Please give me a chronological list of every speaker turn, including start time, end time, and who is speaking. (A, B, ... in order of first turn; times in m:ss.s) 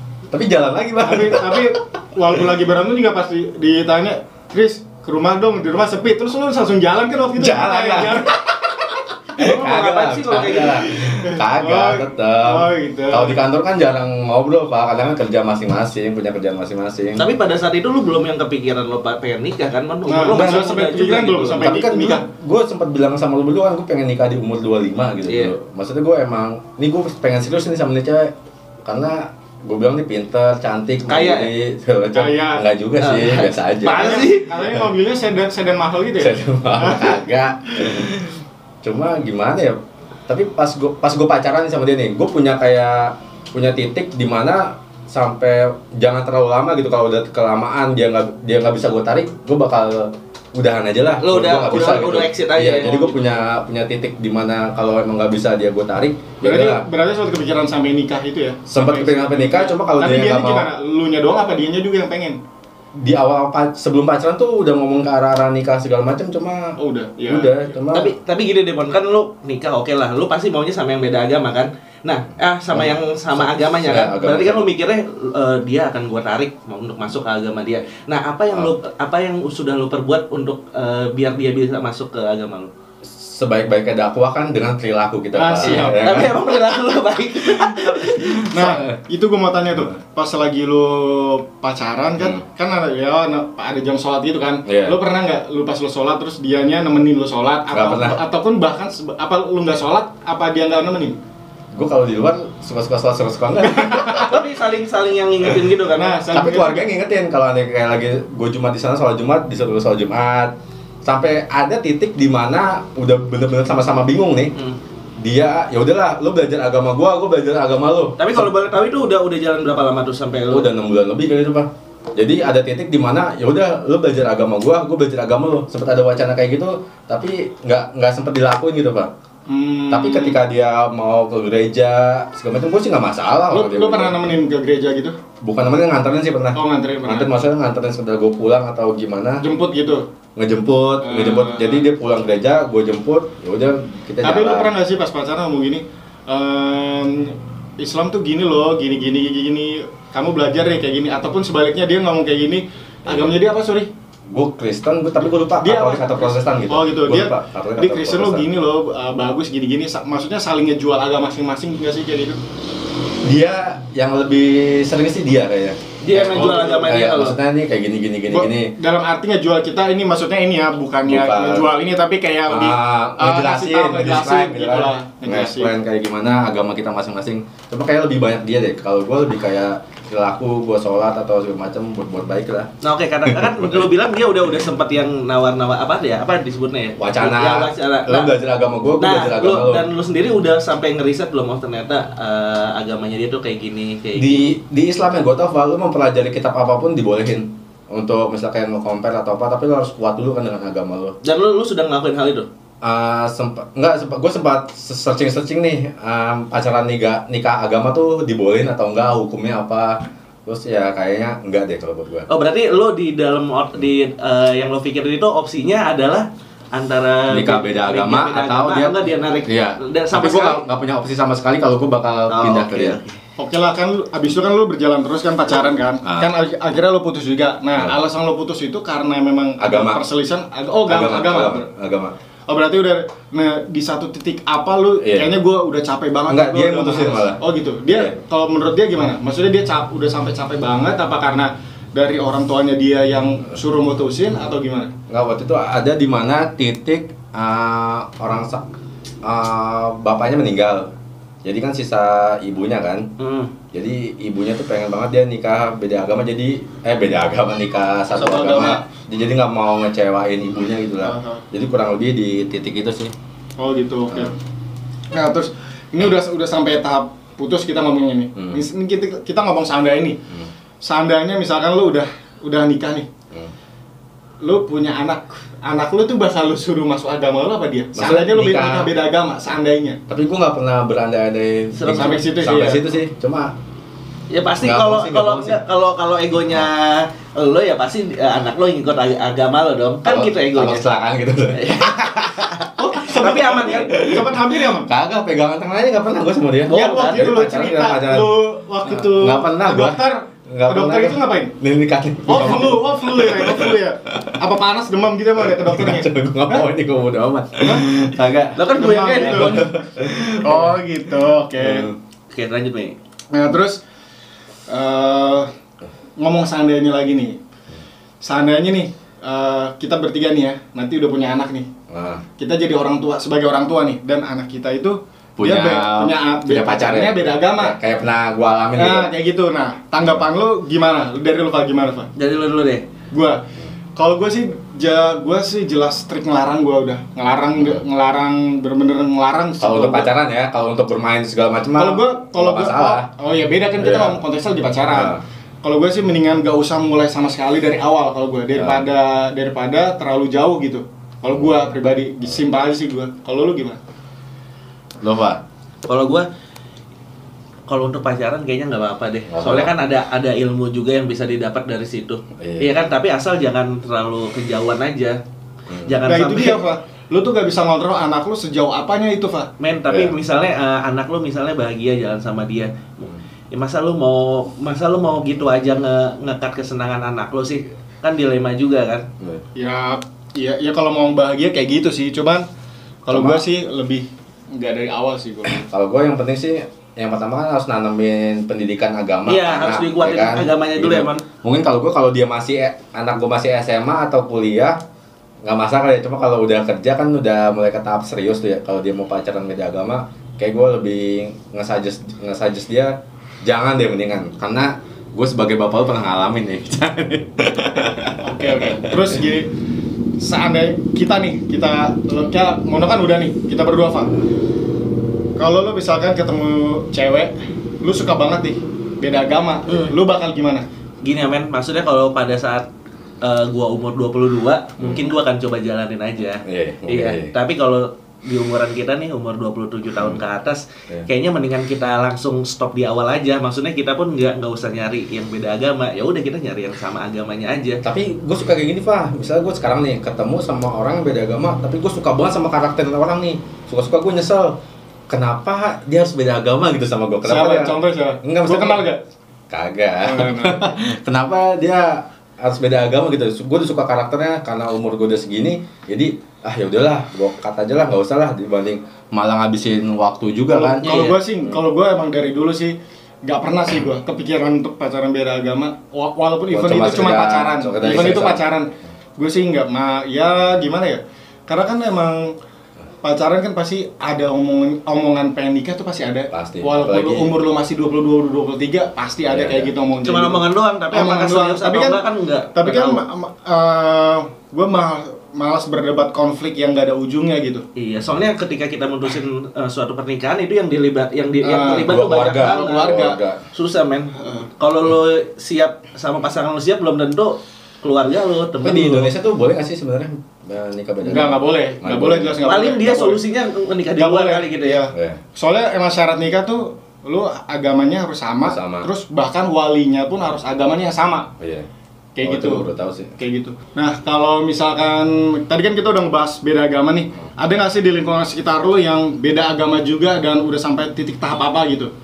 0:00.3-0:01.8 A
0:01.0-0:08.4 B
0:07.4-0:08.4 A
0:09.4-0:17.3 A
0:09.4-0:11.1 C
0:11.2-0:13.4 B
0:17.2-0:21.8 C
0:20.1-0:22.2 B
0:20.3-0:20.6 A
0:21.5-0:34.8 A
0:25.3-0:25.5 C
0:31.1-0:31.5 C
0:32.1-0:32.6 B
0:33.0-0:34.5 C
0:33.8-0:37.2 B
0:36.2-0:56.8 A
0:51.2-0:53.2 C
0:56.4-1:02.4 B
0:58.7-1:00.7 A
1:03.0-1:08.1 A
1:06.8-1:07.6 B
1:07.9-1:22.7 C
1:12.7-1:14.7 A
1:23.0-1:26.4 A
1:25.3-1:26.3 B
1:25.6-1:28.5 C
1:27.6-1:29.0 A
1:28.4-1:41.2 B
1:34.6-1:35.0 A
1:37.7-1:38.2 A
1:41.7-1:44.4 A
1:43.6-1:44.4 B
1:44.2-1:46.2 C
1:45.9-1:46.9 B
1:46.3-1:54.5 A
1:55.2-1:58.5 A
1:58.2-2:00.7 C
2:00.5-2:09.1 A
2:09.5-2:10.4 B
2:09.9-2:14.2 A
2:13.5-2:15.2 B
2:15.4-2:19.4 A
2:16.5-2:17.3 B
2:19.4-2:20.0 B
2:20.4-2:24.7 A
2:21.0-2:21.8 B
2:24.2-2:33.9 B
2:33.0-2:33.4 A
2:34.3-2:38.5 A
2:35.6-2:42.4 B
2:43.2-2:48.7 A
2:46.0-2:47.4 C
2:48.3-2:55.7 B
2:51.0-2:51.7 A
2:52.5-3:02.7 A
3:02.8-3:08.3 C
3:03.2-3:03.9 A
3:07.0-3:09.9 A
3:09.0-3:14.5 C
3:14.2-3:21.2 A
3:21.2-3:22.5 C
3:22.8-3:32.3 A
3:32.3-3:40.6 C
3:37.3-3:43.0 A
3:42.3-3:43.1 C
3:43.4-3:51.6 B
3:46.0-3:46.3 A
3:49.6-3:50.0 A
3:50.9-3:52.1 A
3:52.5-4:04.9 B
3:55.0-3:55.3 A
3:56.3-3:58.1 A
4:05.1-4:08.6 A
4:09.2-4:10.9 A
4:11.4-4:13.1 A
4:13.2-4:13.5 C
4:13.7-4:23.1 A
4:18.1-4:18.8 B
4:21.0-4:21.4 B
4:23.6-4:24.3 B
4:25.1-4:30.2 B
4:28.4-4:28.6 A
4:30.8-4:33.1 B
4:34.4-4:40.0 B
4:37.9-4:38.9 A
4:40.1-4:43.5 A
4:41.7-4:42.2 C
4:41.9-4:42.8 B
4:44.3-4:50.8 C
4:44.6-4:45.6 A
4:50.0-4:52.2 A
4:51.5-4:54.1 C
4:52.8-4:54.9 B
4:53.7-4:58.3 A
4:56.6-4:57.3 C
4:56.7-5:01.5 B
4:58.8-5:04.4 A
5:02.2-5:06.6 B
5:05.4-5:10.8 A
5:08.5-5:09.7 C
5:08.6-5:09.6 B
5:10.4-5:11.9 B
5:11.6-5:12.0 A
5:12.3-5:13.0 C
5:13.3-5:13.8 B
5:14.7-5:15.5 B
5:16.2-5:17.4 B
5:18.2-5:21.7 B
5:21.9-5:22.2 A
5:22.4-5:27.8 B
5:25.4-5:29.1 A
5:28.8-5:32.1 B
5:32.2-5:32.8 C
5:33.1-5:33.4 B
5:34.0-5:40.1 B
5:37.6-5:37.8 A
5:39.6-5:43.1 A
5:41.8-5:53.8 B
5:43.8-5:44.2 A
5:44.9-5:45.2 A
5:48.5-5:48.8 A
5:55.0-5:55.4 A
5:55.8-5:56.3 C
5:57.7-6:05.2 C
5:59.3-5:59.7 A
6:02.4-6:02.7 A
6:05.7-6:06.0 A
6:05.8-6:06.6 C
6:06.0-6:09.5 B
6:09.6-6:19.1 C
6:09.9-6:10.1 A
6:19.5-6:22.4 B
6:23.0-6:25.6 B
6:23.1-6:23.4 A
6:25.5-6:34.8 A
6:29.2-6:31.2 C
6:35.4-6:49.2 A
6:48.2-6:49.5 B
6:50.2-6:54.1 B
6:55.4-7:00.6 B
6:59.7-6:59.9 C
7:01.0-7:02.6 C
7:03.2-7:17.8 C
7:04.8-7:05.0 A
7:06.4-7:07.3 A
7:17.8-7:28.9 A
7:27.2-7:29.0 B
7:29.5-7:40.9 A
7:30.0-7:30.8 B
7:40.5-7:52.4 B
7:40.8-7:41.2 C
7:46.5-7:48.4 A
7:53.0-8:07.6 B
7:56.3-7:57.3 A
7:59.2-7:59.7 A
8:00.0-8:03.0 C
8:07.8-8:19.1 C
8:11.4-8:13.2 B
8:11.7-8:13.4 A
8:14.2-8:14.5 B
8:18.6-8:22.4 A
8:21.0-8:23.2 B
8:22.4-8:24.9 C
8:23.9-8:31.3 B
8:24.9-8:25.2 A
8:28.4-8:28.9 A
8:31.4-8:31.7 A
8:32.2-8:32.6 B
8:32.2-8:33.1 A
8:33.2-8:41.9 B